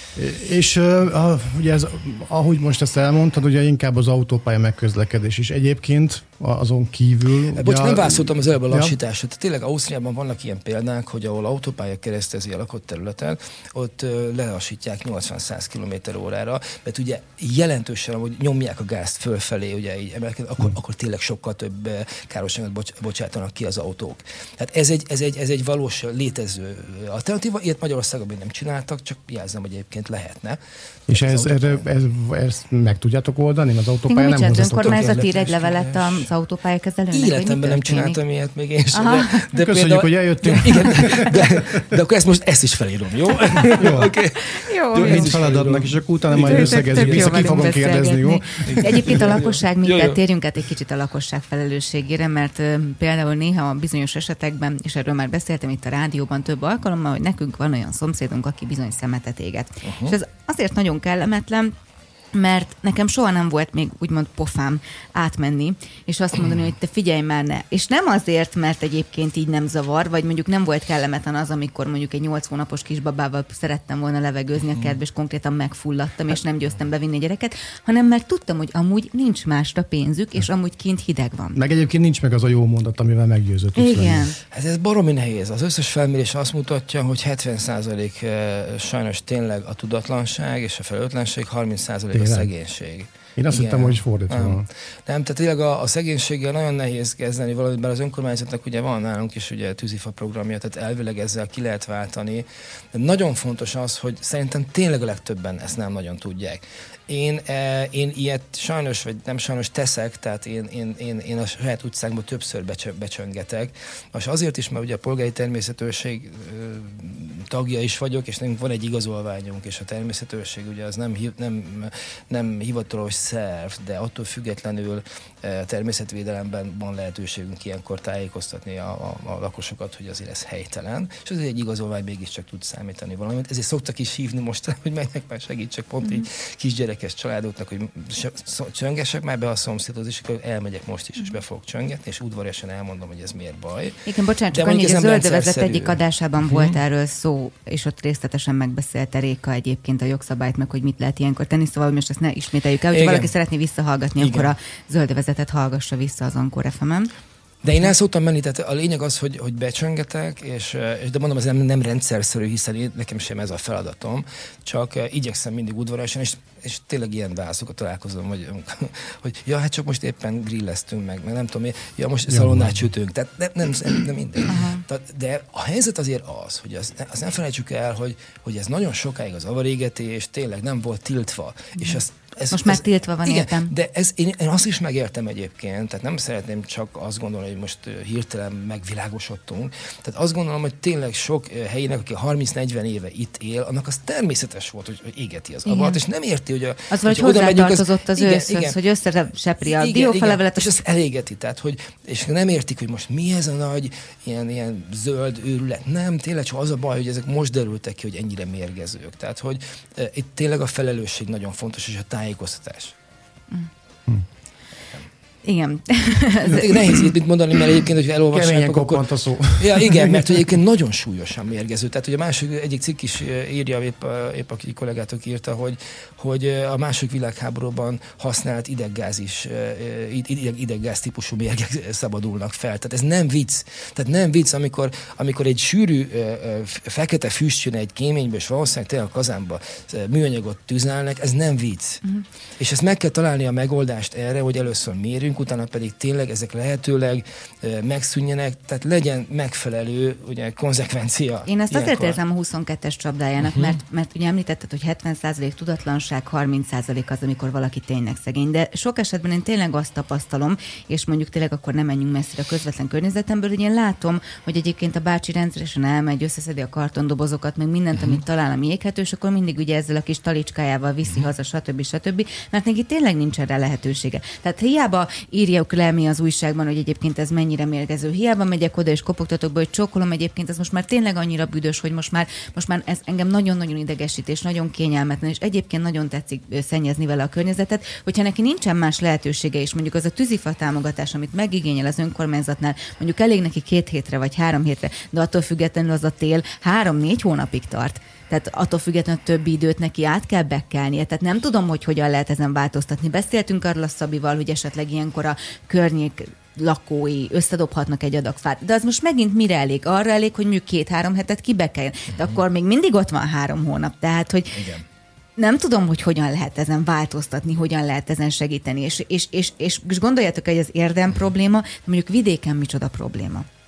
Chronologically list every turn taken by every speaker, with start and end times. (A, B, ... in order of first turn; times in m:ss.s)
0:00.2-0:08.9 A
0:07.5-0:31.8 B
0:31.1-0:35.2 A
0:34.1-0:38.2 C
0:34.7-0:36.2 B
0:37.1-0:47.8 B
0:38.9-0:39.5 C
0:39.5-0:41.8 A
0:43.8-0:44.1 A
0:44.5-0:45.3 C
0:45.0-0:49.2 A
0:46.3-1:01.7 C
0:48.7-0:50.2 B
0:59.8-1:00.2 B
1:02.3-1:21.6 C
1:21.5-1:24.3 A
1:23.8-1:24.4 C
1:24.4-2:26.7 B
1:32.1-1:32.5 A
1:33.4-1:34.7 A
2:24.0-2:37.1 C
2:32.9-2:33.3 B
2:34.2-2:34.5 B
2:37.6-3:18.8 B
2:52.3-2:52.7 A
2:54.4-2:54.8 C
3:02.5-3:03.7 C
3:15.6-3:16.0 C
3:16.9-3:20.8 C
3:19.6-3:32.9 B
3:35.4-3:37.1 C
3:36.4-4:02.0 B
3:38.3-3:40.3 A
4:02.6-4:12.2 B
4:11.4-5:14.6 C
4:13.4-4:13.8 B
5:14.5-5:14.8 B
5:15.4-5:23.4 C